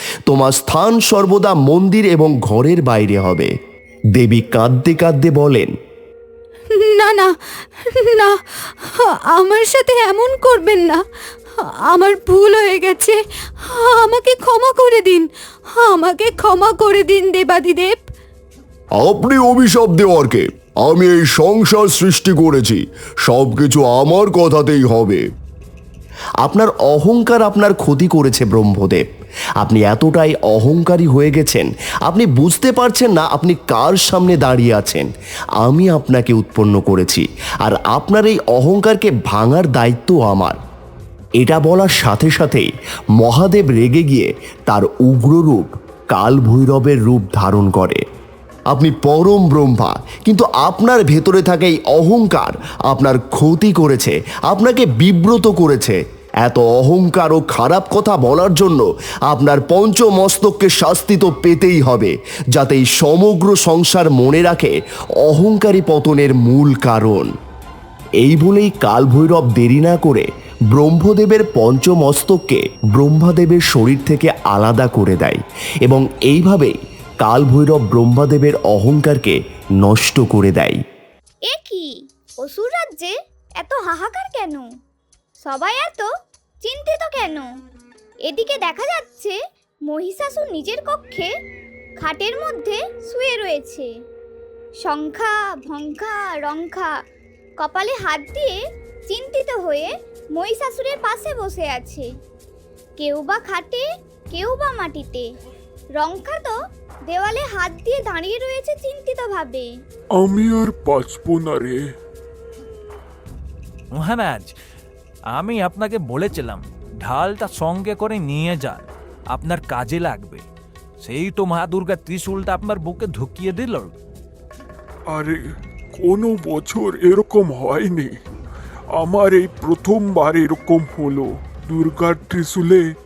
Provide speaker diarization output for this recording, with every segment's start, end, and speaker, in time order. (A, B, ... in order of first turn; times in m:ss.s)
0:00.3-0:03.5 A
0:04.2-0:05.7 A
0:06.7-0:11.0 B
0:11.6-0:18.1 B
0:19.1-0:22.8 C
0:23.3-0:25.2 C
0:26.4-0:29.0 A
0:29.6-0:35.1 A
0:35.6-0:40.6 A
0:41.4-0:42.7 A
0:43.2-0:48.0 A
0:48.7-1:04.7 A
1:05.3-1:07.3 A
1:08.2-1:20.8 A
1:21.5-1:21.9 D
1:22.4-1:24.6 D
1:25.4-1:26.1 D
1:26.6-1:27.5 D
1:28.3-1:29.4 D
1:29.9-1:31.3 D
1:32.0-1:33.9 D
1:34.8-1:36.9 D
1:37.6-1:38.5 D
1:39.1-1:42.1 D
1:43.0-1:45.3 D
1:46.0-1:46.5 D
1:47.1-1:49.7 D
1:50.2-1:51.9 E
1:54.0-1:54.6 F
1:55.3-2:00.4 F
2:01.0-2:03.9 F
2:05.1-2:05.4 E
2:06.0-2:08.2 E
2:08.9-2:12.9 E